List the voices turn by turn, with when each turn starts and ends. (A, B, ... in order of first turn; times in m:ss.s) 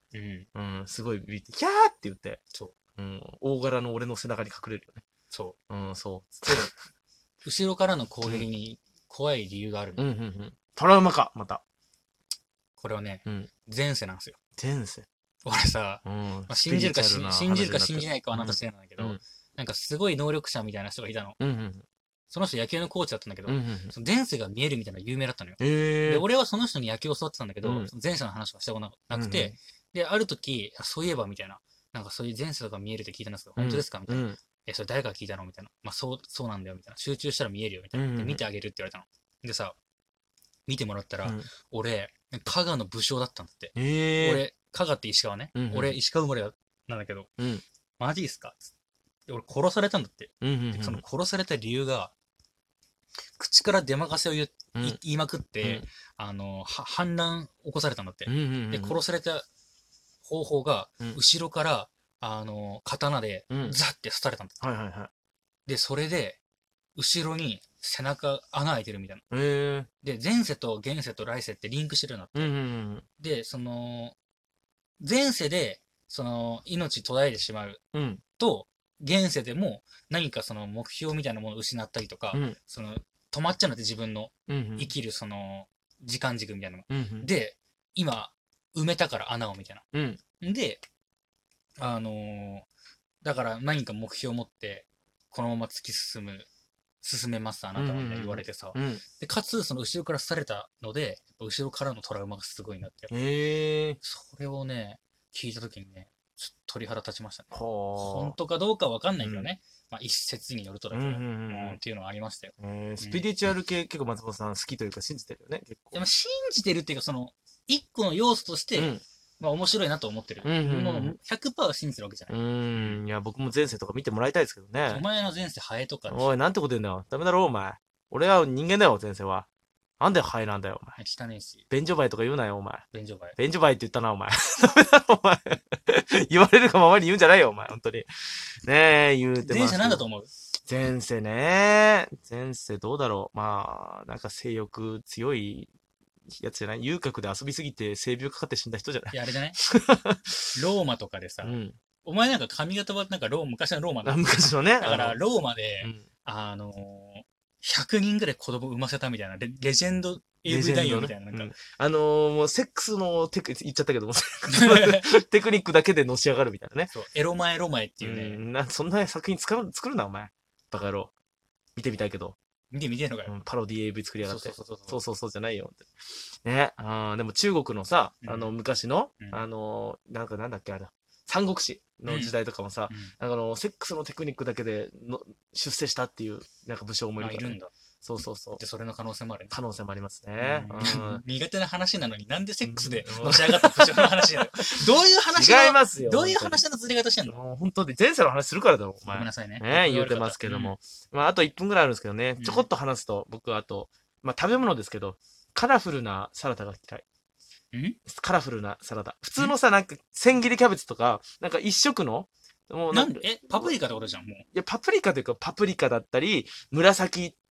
0:00.1-0:00.5 A
0:00.5-0:02.4 B
0:03.0-0:05.0 B
0:05.3-0:05.6 A
0:05.7-0:06.7 B
0:07.4-0:10.0 A
0:10.0-0:11.6 B
0:12.8-0:14.4 A
0:14.6-0:15.1 B
0:15.4-0:21.4 A
0:16.0-0:19.2 B
0:21.4-0:21.8 B
0:22.3-0:39.8 A
0:23.4-0:23.9 B
0:25.6-0:26.2 B
0:27.6-0:27.9 B
0:29.1-0:29.5 B
0:33.6-0:34.4 B
0:37.9-0:38.4 B
0:40.7-0:47.3 A
0:43.8-0:44.4 B
0:45.5-0:46.0 B
0:47.4-0:47.6 B
0:48.0-0:48.7 A
0:49.3-0:52.1 A
0:50.4-0:51.0 B
0:53.4-0:59.4 A
0:58.2-0:59.0 B
1:00.2-1:04.6 A
1:03.5-1:03.8 B
1:04.6-1:05.1 B
1:05.6-1:06.4 A
1:07.0-1:09.2 A
1:09.3-1:09.9 B
1:10.0-1:12.5 A
1:12.3-1:13.0 B
1:13.2-1:14.2 A
1:15.0-1:17.8 A
1:17.9-1:18.2 B
1:18.4-1:29.8 A
1:24.5-1:24.9 B
1:26.9-1:27.3 B
1:29.9-1:30.2 B
1:30.4-1:30.8 A
1:31.8-1:32.7 A
1:33.2-1:36.5 A
1:37.0-1:43.1 A
1:37.8-1:39.0 B
1:43.1-1:44.0 B
1:44.0-1:53.3 A
1:47.5-1:48.4 B
1:49.2-1:49.5 B
1:50.9-1:51.8 B
1:52.6-1:56.0 B
1:55.9-2:03.0 A
1:58.8-1:59.0 B
2:00.4-2:01.2 B
2:02.3-2:05.0 B
2:04.9-2:06.3 A
2:06.1-2:09.5 B
2:10.0-2:11.0 B
2:11.0-2:11.6 A
2:11.7-2:12.8 B
2:12.9-2:13.4 A
2:13.4-2:20.0 B
2:19.4-2:20.3 A
2:20.7-2:25.7 B
2:26.3-2:30.4 B
2:29.1-2:29.6 A
2:30.5-2:41.5 A
2:31.4-2:31.8 B
2:34.0-2:35.2 B
2:40.5-2:46.9 B
2:44.5-2:45.1 A
2:46.9-2:48.4 A
2:48.0-2:51.1 B
2:51.8-2:52.4 B
2:52.7-2:53.3 A
2:53.3-2:55.9 B
2:54.2-2:55.0 A
2:56.4-3:08.6 B
2:58.2-2:58.5 A
2:59.2-2:59.4 A
3:02.0-3:02.3 A
3:02.9-3:03.1 A
3:07.2-3:07.7 A
3:08.6-3:09.6 A
3:09.5-3:11.2 B
3:10.4-3:17.4 A
3:12.6-3:16.6 B
3:17.3-3:27.0 B
3:19.1-3:20.7 A
3:22.4-3:22.7 A
3:27.7-3:28.0 A
3:28.1-3:33.8 B
3:32.9-3:34.4 A
3:34.5-3:37.4 B